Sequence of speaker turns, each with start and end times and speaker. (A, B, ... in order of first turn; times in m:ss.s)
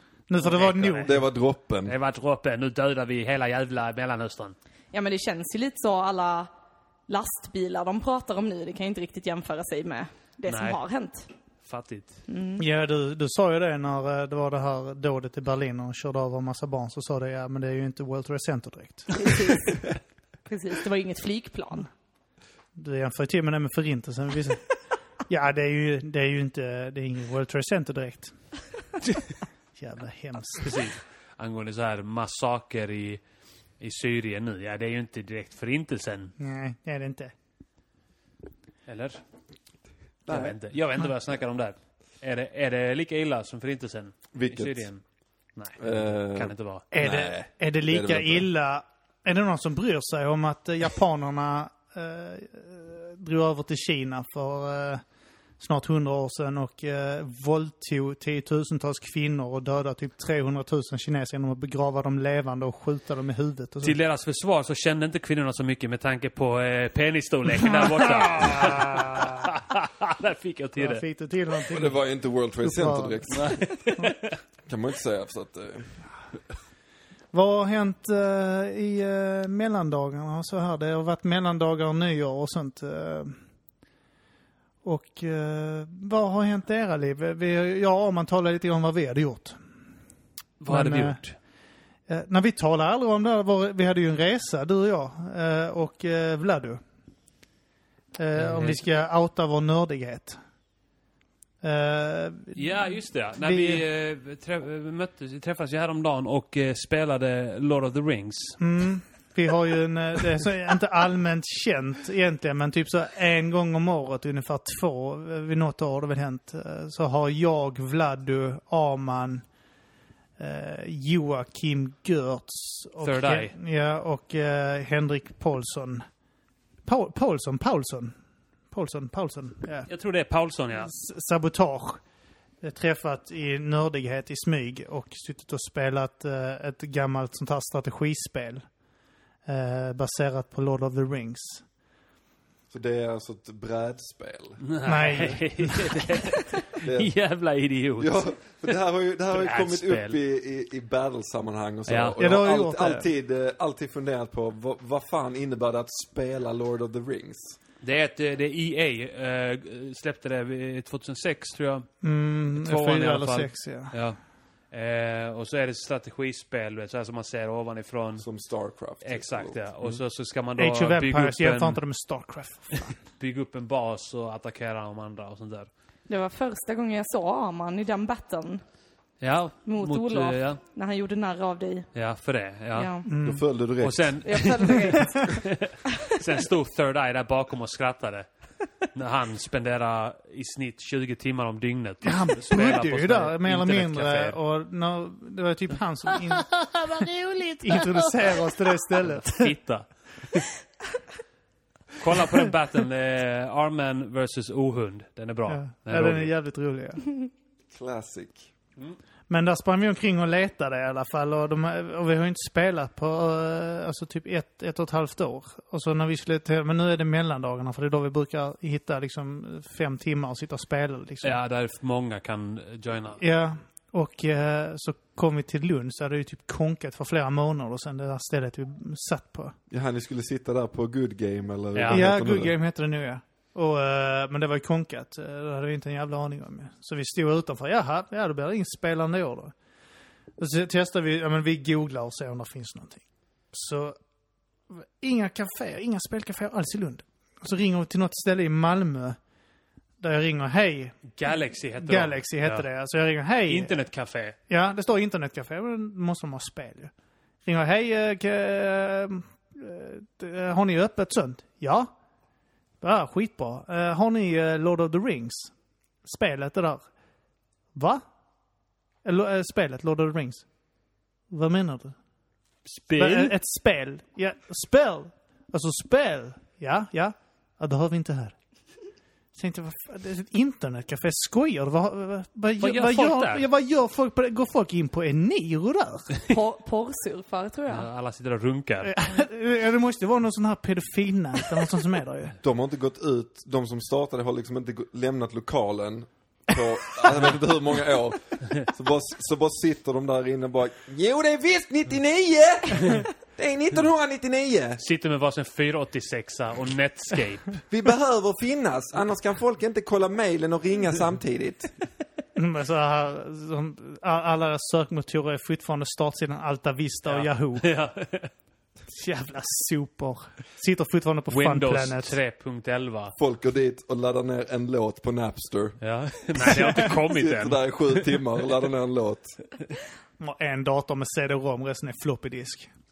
0:00.3-0:01.1 A
0:00.4-0:01.2 B
0:01.0-0:01.9 C
0:01.8-0:04.6 B
0:04.9-0:06.5 D
0:07.1-0:11.3 D
0:10.5-0:10.8 B
0:11.6-0:12.2 B
0:12.3-0:12.6 D
0:12.6-0:19.3 A
0:19.1-0:19.9 D
0:20.5-0:21.9 D
0:22.8-0:24.6 A
0:25.3-0:28.3 A
0:29.8-0:30.8 A
0:30.6-0:33.2 B
0:33.8-0:36.4 B
0:36.4-0:37.3 A
0:38.9-0:39.2 B
0:40.3-0:40.6 C
0:40.3-0:45.0 B
0:44.3-0:44.9 C
0:45.6-0:46.8 B
0:45.8-0:48.5 C
0:46.9-0:55.0 A
0:55.6-1:04.0 A
1:03.8-1:11.0 B
1:07.7-1:09.5 A
1:10.8-1:12.0 A
1:11.7-1:13.6 C
1:12.6-1:14.0 A
1:13.3-1:14.4 B
1:14.7-1:16.0 C
1:17.3-1:23.4 A
1:24.8-1:29.6 A
1:30.6-1:31.4 B
1:30.7-1:31.2 A
1:32.1-1:36.8 A
1:38.2-1:40.4 A
1:38.4-1:38.8 B
1:41.6-1:43.8 A
1:42.6-1:48.6 B
1:48.6-1:59.4 A
2:00.4-2:06.1 A
2:03.0-2:03.5 B
2:06.9-2:08.2 A
2:08.7-2:09.9 A
2:09.9-2:10.9 B
2:10.7-2:12.0 A
2:12.6-2:18.7 A
2:19.5-2:21.6 A
2:22.7-2:24.7 C
2:24.6-2:28.8 B
2:24.8-2:26.0 A
2:26.8-2:27.1 C
2:28.0-2:37.6 C
2:29.3-2:30.2 B
2:31.9-2:32.2 B
2:32.2-2:33.1 A
2:37.8-2:41.9 B
2:42.0-2:43.9 A
2:42.6-2:44.2 B
2:44.7-2:48.3 B
2:48.2-2:50.0 C
2:49.0-2:51.8 B
2:50.6-2:52.9 A
2:53.2-2:55.7 B
2:56.1-2:58.6 D
2:59.2-3:00.6 B
2:59.7-3:01.9 D
3:01.9-3:02.9 B
3:02.7-3:03.1 D
3:03.0-3:03.4 A
3:03.2-3:04.3 C
3:03.8-3:08.3 B
3:04.2-3:05.4 D
3:08.9-3:14.4 B
3:12.0-3:19.5 A
3:19.0-3:20.5 B
3:22.0-3:26.3 B
3:25.5-3:27.0 A
3:27.7-3:28.5 C
3:29.3-3:41.4 A
3:41.2-3:43.2 B
3:43.2-3:49.6 A
3:49.7-3:52.5 C
3:51.8-3:52.0 B
3:51.9-3:59.5 A
4:00.4-4:04.0 A
4:04.7-4:09.2 A
4:10.0-4:11.1 A
4:11.1-4:12.7 B
4:11.8-4:13.8 A
4:13.5-4:14.4 B
4:14.5-4:16.9 A
4:17.4-4:21.9 A
4:22.8-4:25.5 A
4:26.0-4:26.9 A
4:27.8-4:28.0 A
4:29.0-4:30.4 A
4:31.3-4:32.0 A
4:32.7-4:33.3 B
4:33.0-4:38.4 A
4:39.3-4:46.1 A
4:42.6-4:43.5 B
4:46.3-4:47.9 D
4:47.7-4:48.9 B
4:48.8-4:52.4 A
4:52.4-5:04.8 C
5:04.8-5:07.6 B
5:07.7-5:11.7 C
5:12.4-5:17.7 A
5:17.0-5:18.3 B
5:18.9-5:22.2 A
5:21.3-5:23.2 B
5:23.2-5:25.8 C
5:25.8-5:28.1 B
5:26.4-5:29.4 C
5:30.2-5:32.7 A